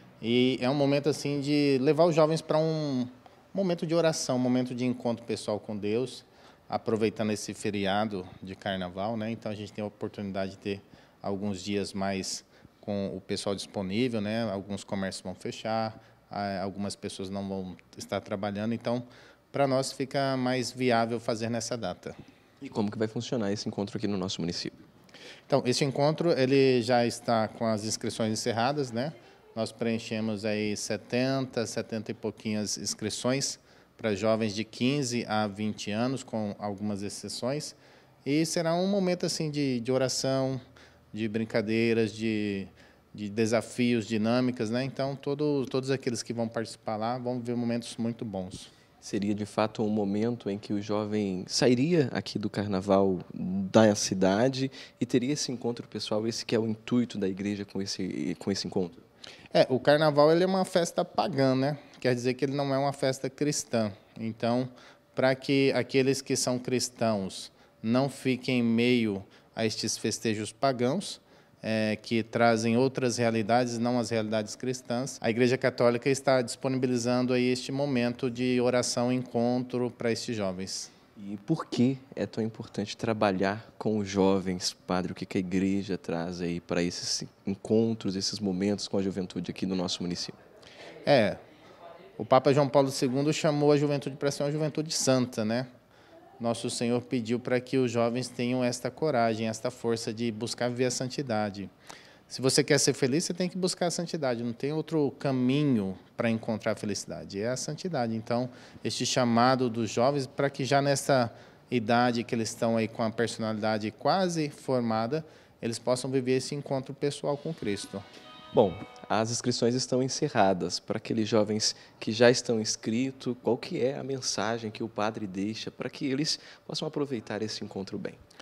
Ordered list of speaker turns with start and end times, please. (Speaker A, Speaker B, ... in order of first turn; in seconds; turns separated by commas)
Speaker A: 0.2-22.2, Speaker B: 22.6-24.8, Speaker A: 25.5-40.6, Speaker A: 41.1-48.7, Speaker B: 49.0-59.0, Speaker A: 59.5-80.9, Speaker B: 81.2-90.4, Speaker A: 91.0-91.4, Speaker A: 92.2-95.7, Speaker A: 96.4-101.7, Speaker A: 102.3-118.0, Speaker B: 118.5-128.2